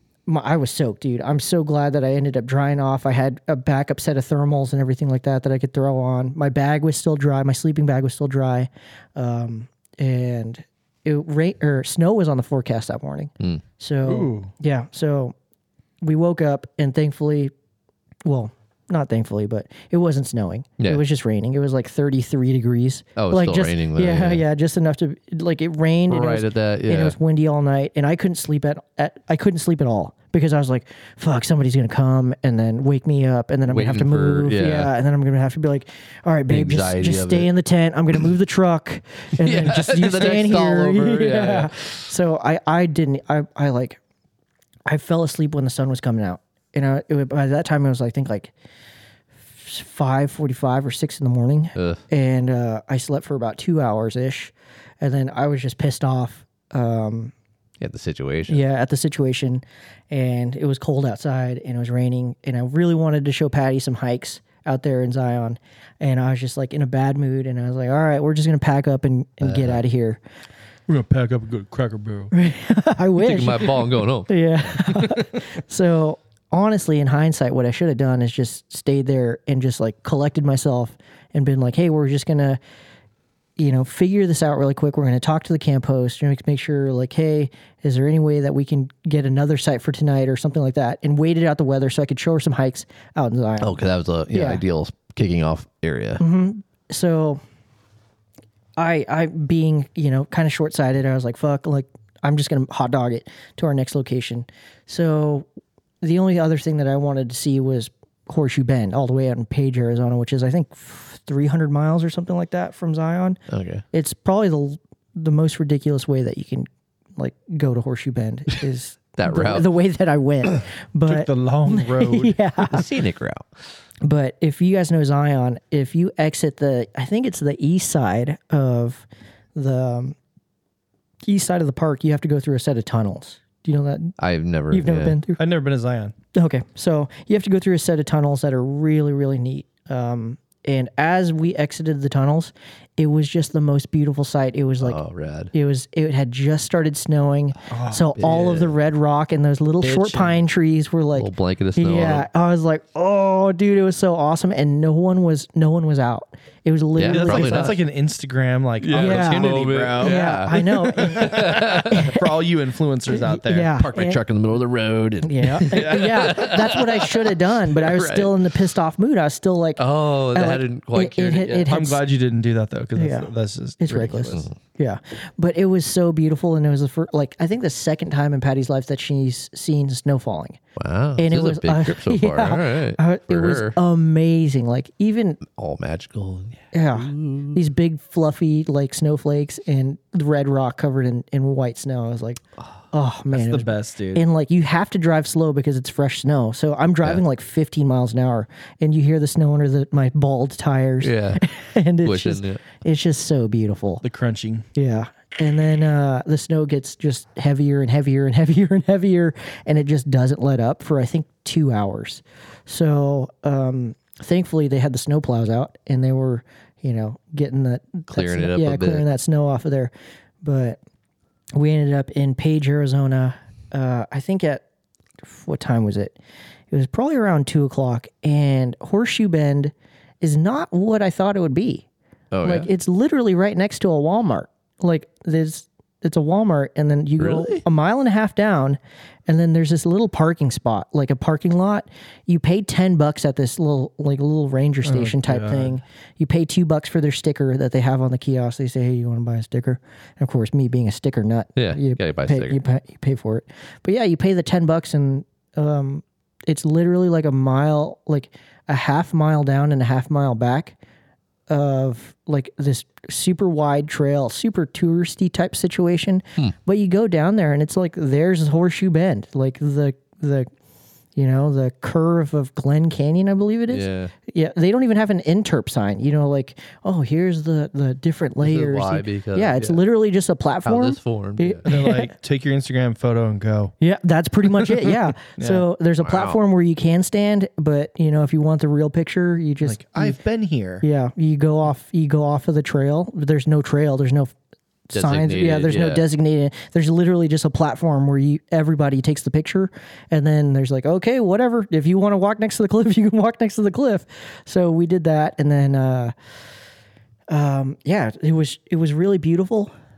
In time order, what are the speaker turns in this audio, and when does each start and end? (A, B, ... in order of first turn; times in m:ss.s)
0:00.3-0:15.3 A
0:14.0-0:14.5 B
0:16.0-0:17.5 A
0:18.2-0:44.0 A
0:23.2-0:24.4 C
0:26.1-0:27.2 C
0:33.7-0:34.9 C
0:36.5-0:37.5 C
0:39.4-0:41.9 C
0:44.9-0:48.5 A
0:49.6-0:57.3 A
0:57.8-0:58.6 C
0:58.5-1:10.2 A
1:09.4-1:09.8 C
1:10.9-1:12.3 B
1:12.3-1:22.6 A
1:13.2-1:14.3 C
1:23.6-1:33.8 A
1:33.6-1:36.2 C
1:34.3-1:34.6 A
1:36.2-1:37.4 A
1:38.8-1:45.5 A
1:46.0-1:53.4 A
1:53.5-1:53.8 C
1:53.9-2:02.9 A
1:59.2-1:59.7 C
2:01.1-2:02.4 B
2:02.7-2:03.4 C
2:04.0-2:10.2 A
2:11.2-2:14.2 A
2:14.2-2:15.2 C
2:14.7-2:15.4 A
2:15.4-2:16.1 B
2:16.3-2:25.0 A
2:24.8-2:25.5 C
2:25.5-2:37.8 A
2:27.7-2:28.7 B
2:29.8-2:30.3 B
2:31.2-2:32.3 C
2:37.0-2:37.8 C
2:37.1-2:43.8 B
2:38.8-2:42.1 C
2:38.9-2:42.2 A
2:43.1-2:44.2 A
2:43.7-2:48.3 C
2:45.2-2:52.0 A
2:45.7-2:46.3 B
2:49.8-2:51.7 C
2:51.7-2:54.4 B
2:53.0-2:53.3 A
2:53.8-3:00.6 A
2:54.3-2:54.5 C
3:00.8-3:03.8 C
3:01.2-3:05.4 A
3:05.4-3:07.6 C
3:06.7-3:24.0 A
3:13.3-3:14.2 B
3:21.0-3:21.4 C
3:22.0-3:22.6 C
3:24.0-3:24.6 B
3:24.7-3:39.9 A
3:38.1-3:39.0 C
3:40.4-3:40.8 A
3:41.6-3:44.6 A
3:45.2-3:46.2 A
3:46.7-3:51.8 A
3:52.3-3:52.7 C
3:52.4-4:20.8 A
3:57.2-3:57.6 C
4:04.8-4:05.7 B
4:11.6-4:12.6 C
4:21.5-4:30.5 A
4:31.2-4:42.1 A
4:33.7-4:34.1 C
4:38.4-4:39.8 C
4:40.6-4:41.6 C
4:41.6-4:43.7 B
4:43.8-4:50.2 A
4:44.6-4:45.6 B
4:46.0-4:46.4 C
4:49.6-4:50.8 B
4:50.8-4:54.3 A
4:54.9-5:06.1 A
4:54.9-4:56.0 C
5:07.3-5:09.7 A